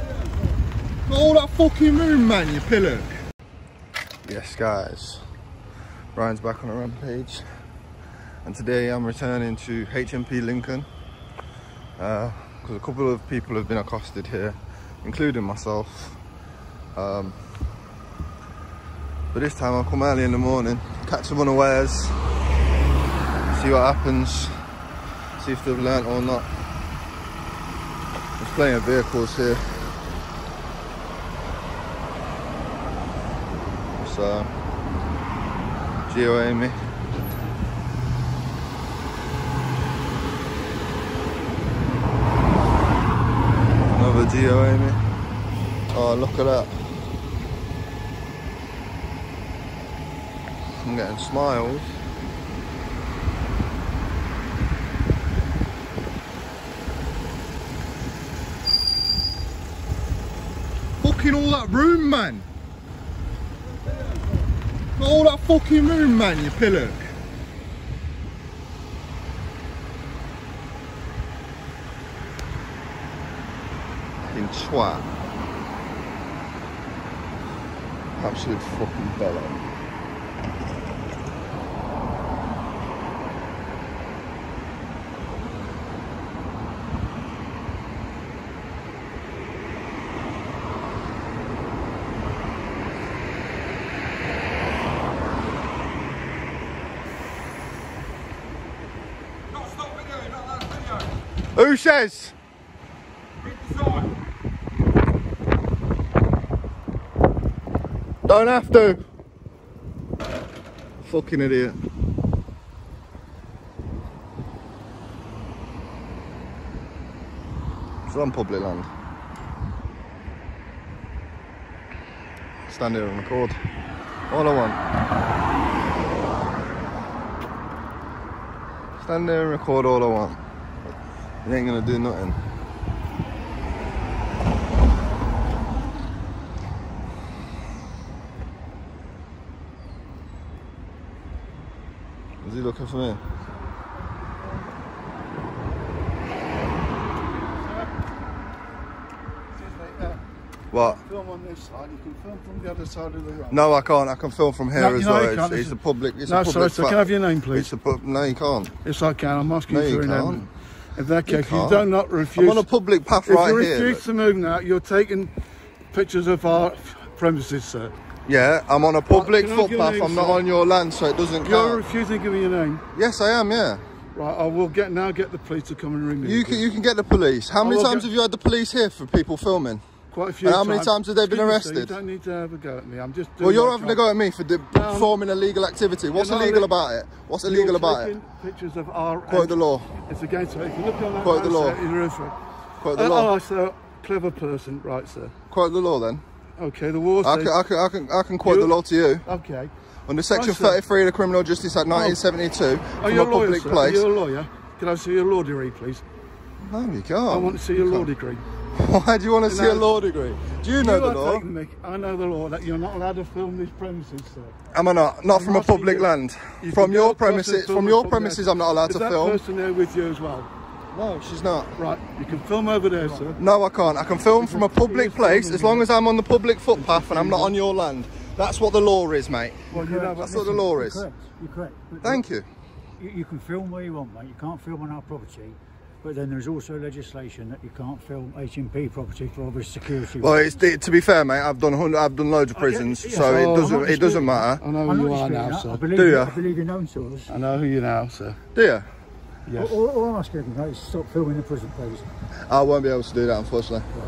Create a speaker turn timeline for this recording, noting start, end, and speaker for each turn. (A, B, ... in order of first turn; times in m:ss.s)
0:01.1-0:03.1 A
0:04.2-0:05.2 A
0:06.2-0:07.4 A
0:08.4-0:10.9 A
0:12.0-0:16.2 A
0:17.0-0:17.4 A
0:19.3-0:22.2 A
0:23.5-0:24.5 A
0:25.4-0:26.5 A
0:28.4-0:29.6 A
0:34.0-0:34.5 A
0:36.1-0:36.8 A
0:43.9-0:45.0 A
0:45.9-0:46.8 A
0:50.8-0:52.0 A
1:01.0-1:02.5 A
1:05.0-1:07.1 A
1:14.2-1:15.1 A
1:18.2-1:19.7 A
1:41.6-1:42.4 A
1:48.3-1:49.0 A
1:51.0-1:51.8 A
1:58.1-1:58.9 A
2:02.7-2:03.6 A
2:04.3-2:04.8 A
2:09.0-2:10.4 A
2:11.4-2:12.4 A
2:22.4-2:23.2 A
2:27.3-2:27.9 B
2:29.5-2:30.2 B
2:30.7-2:31.0 A
2:30.8-2:33.6 B
2:33.5-2:38.7 A
2:34.8-2:37.7 B
2:38.8-2:42.7 B
2:39.7-2:40.5 A
2:41.3-2:44.0 A
2:43.2-2:45.3 B
2:45.9-2:47.9 B
2:48.3-2:51.8 A
2:49.1-2:50.4 B
2:51.4-2:52.8 B
2:52.9-2:53.8 A
2:54.1-2:56.7 B
2:56.2-2:59.8 A
2:57.6-2:58.1 B
3:00.1-3:04.0 B
3:00.4-3:02.0 A
3:03.4-3:08.2 A
3:04.7-3:05.1 B
3:06.1-3:06.7 B
3:07.4-3:12.4 B
3:09.3-3:09.9 A
3:11.2-3:11.8 A
3:12.8-3:13.3 A
3:12.9-3:15.3 B
3:15.5-3:16.2 A
3:16.6-3:17.6 B
3:17.2-3:19.2 A
3:18.4-3:19.7 B
3:20.1-3:24.1 A
3:20.3-3:20.8 B
3:21.9-3:22.2 B
3:23.0-3:26.0 B
3:26.6-3:28.1 A
3:27.3-3:28.4 B
3:28.7-3:31.5 A
3:29.5-3:29.9 B
3:30.7-3:34.6 B
3:34.7-3:39.4 A
3:35.3-3:36.1 B
3:36.6-3:40.5 B
3:40.9-3:41.8 A
3:41.8-3:43.4 B
3:42.9-3:43.4 C
3:43.4-3:49.6 A
3:44.1-3:45.9 B
3:46.7-3:47.6 B
3:49.7-3:50.5 B
3:49.7-3:52.2 C
3:50.2-3:51.0 A
3:52.0-3:52.5 A
3:53.0-4:00.6 C
4:00.2-4:04.6 A
4:02.5-4:07.3 C
4:03.2-4:05.9 B
4:05.9-4:06.4 A
4:07.3-4:08.4 B
4:08.6-4:08.9 A
4:09.5-4:09.8 B
4:09.6-4:12.1 C
4:12.5-4:13.9 A